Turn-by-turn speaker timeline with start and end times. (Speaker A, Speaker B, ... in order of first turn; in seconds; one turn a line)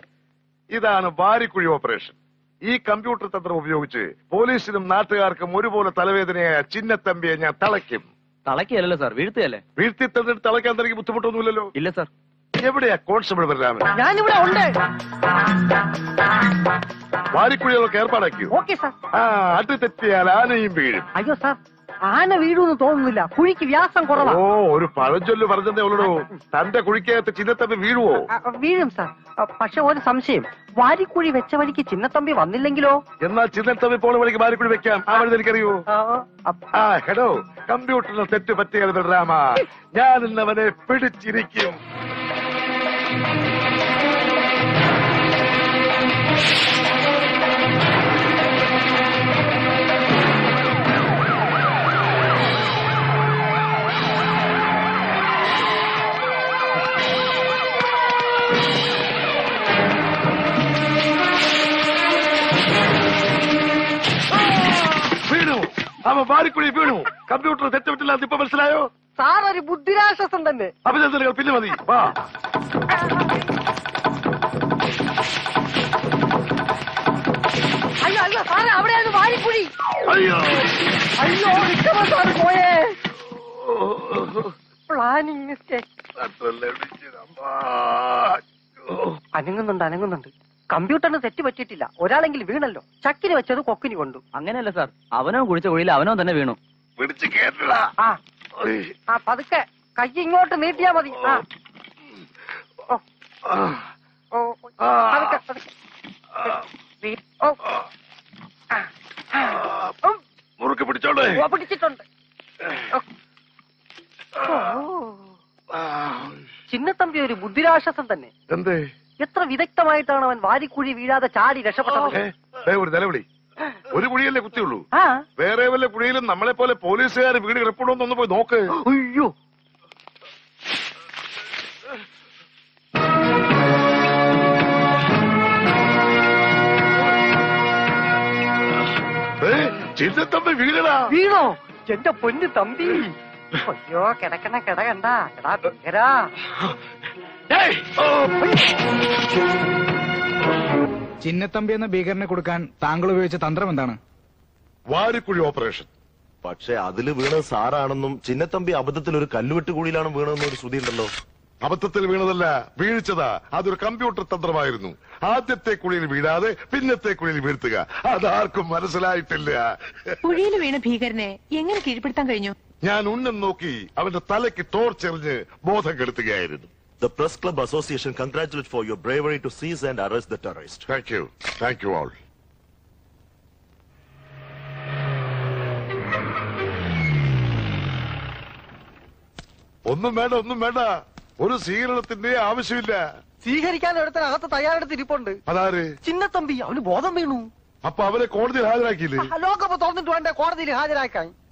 Speaker A: 0.7-8.1
Speaker B: 8.5-9.6
Speaker A: 9.8-11.7
Speaker B: 11.8-12.1
Speaker A: 12.6-13.9
Speaker C: 14.0-14.7
Speaker A: 17.3-18.5
Speaker C: 18.5-18.9
Speaker A: 19.2-21.1
Speaker C: 21.2-21.6
Speaker C: 22.1-24.4
Speaker A: 24.2-28.3
Speaker C: 28.3-33.0
Speaker A: 33.2-35.8
Speaker C: 36.0-36.2
Speaker A: 36.8-41.8
Speaker A: 65.3-68.9
Speaker C: 69.2-70.7
Speaker A: 70.8-72.1
Speaker C: 78.0-79.7
Speaker A: 80.1-80.5
Speaker C: 81.2-82.9
Speaker A: 83.8-84.3
Speaker C: 84.9-85.8
Speaker A: 86.2-88.4
Speaker C: 89.4-94.2
Speaker B: 94.3-96.6
Speaker A: 97.0-97.9
Speaker C: 99.1-101.4
Speaker C: 104.3-105.6
Speaker A: 104.8-105.4
Speaker C: 107.0-107.6
Speaker A: 110.6-111.4
Speaker C: 111.3-112.0
Speaker C: 114.5-114.8
Speaker A: 115.8-116.3
Speaker C: 116.7-118.3
Speaker A: 118.5-118.8
Speaker C: 119.2-122.2
Speaker A: 122.1-123.2
Speaker A: 123.9-124.9
Speaker A: 125.4-128.6
Speaker C: 128.8-129.3
Speaker A: 139.4-141.0
Speaker C: 141.1-143.1
Speaker C: 143.6-146.3
Speaker D: 151.2-154.0
Speaker A: 154.9-155.9
Speaker E: 156.4-161.1
Speaker A: 161.6-169.6
Speaker F: 170.3-172.6
Speaker A: 172.8-176.7
Speaker E: 177.0-180.8
Speaker A: 180.9-182.2
Speaker A: 189.9-190.9
Speaker A: 191.4-193.0
Speaker C: 193.4-195.4
Speaker A: 195.5-195.9
Speaker C: 196.1-197.5
Speaker A: 197.8-199.3
Speaker C: 199.2-201.3